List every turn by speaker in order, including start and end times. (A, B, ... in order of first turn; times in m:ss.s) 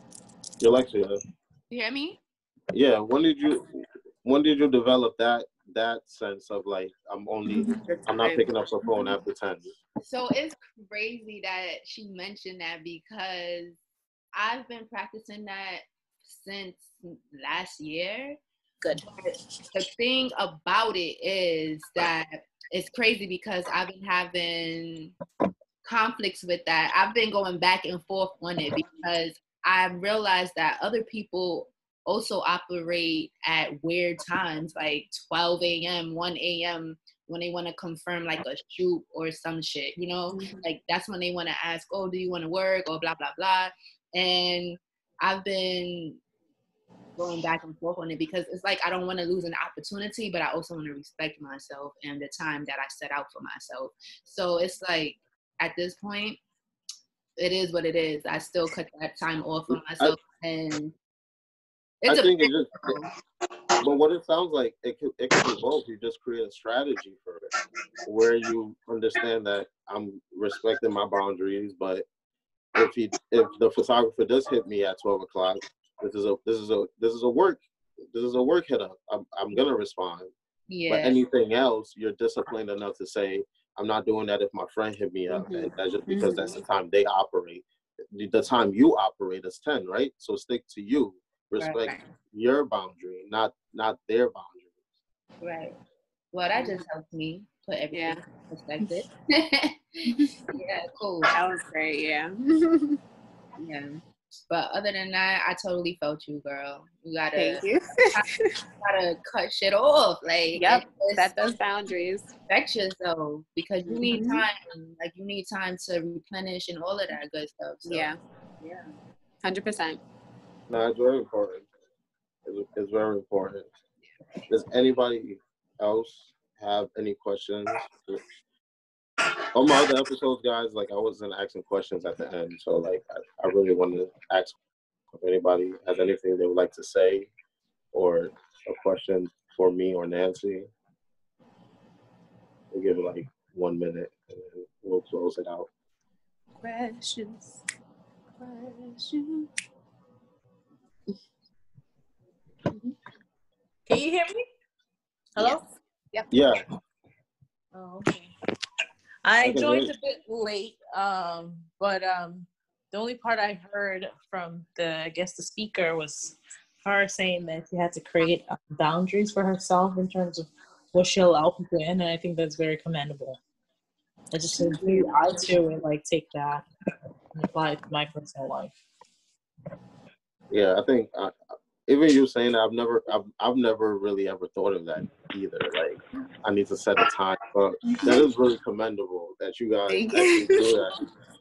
0:00.6-0:01.2 A
0:01.7-0:02.2 B
0:02.7-0:09.7 A
0:07.5-0:09.1 C
0:10.0-0:13.8 B
0:14.3-0:18.4 B
0:19.0-0:25.1 B
0:25.8-0:46.2 B
0:40.3-0:40.6 C
0:47.2-0:56.4 B
0:57.4-1:00.9 B
0:59.7-1:00.2 A
1:02.0-1:03.1 B
1:02.1-1:02.9 A
1:03.8-1:07.5 A
1:08.0-1:12.0 A
1:12.8-1:20.3 A
1:20.7-1:21.2 B
1:20.9-1:34.8 A
1:25.3-1:25.6 B
1:26.1-1:26.6 C
1:31.6-1:32.0 C
1:35.4-1:35.8 B
1:36.3-1:41.3 B
1:36.5-1:36.8 C
1:37.9-1:38.2 C
1:40.0-1:40.4 C
1:41.3-1:43.0 C
1:43.6-1:44.0 C
1:44.5-1:48.2 B
1:47.4-1:48.5 C
1:48.8-1:51.3 B
1:50.5-1:52.3 C
1:52.5-1:58.1 B
1:53.8-1:54.4 C
1:57.8-1:58.8 C
1:59.4-2:00.0 C
2:00.7-2:01.7 A
2:02.4-2:03.7 A
2:04.5-2:08.2 A
2:09.5-2:14.6 A
2:15.1-2:17.3 A
2:17.9-2:20.7 A
2:22.7-2:25.7 A
2:26.6-2:27.6 C
2:28.4-2:29.5 C
2:32.7-2:33.0 C
2:33.9-2:34.4 D
2:35.4-2:35.6 D
2:36.3-2:36.6 A
2:37.7-2:38.3 D
2:39.2-2:53.4 D
2:39.4-2:39.9 A
2:54.3-2:56.6 D
2:54.5-2:55.2 C
2:57.3-2:58.8 D
3:00.5-3:01.3 A
3:01.9-3:11.0 A
3:09.9-3:10.8 C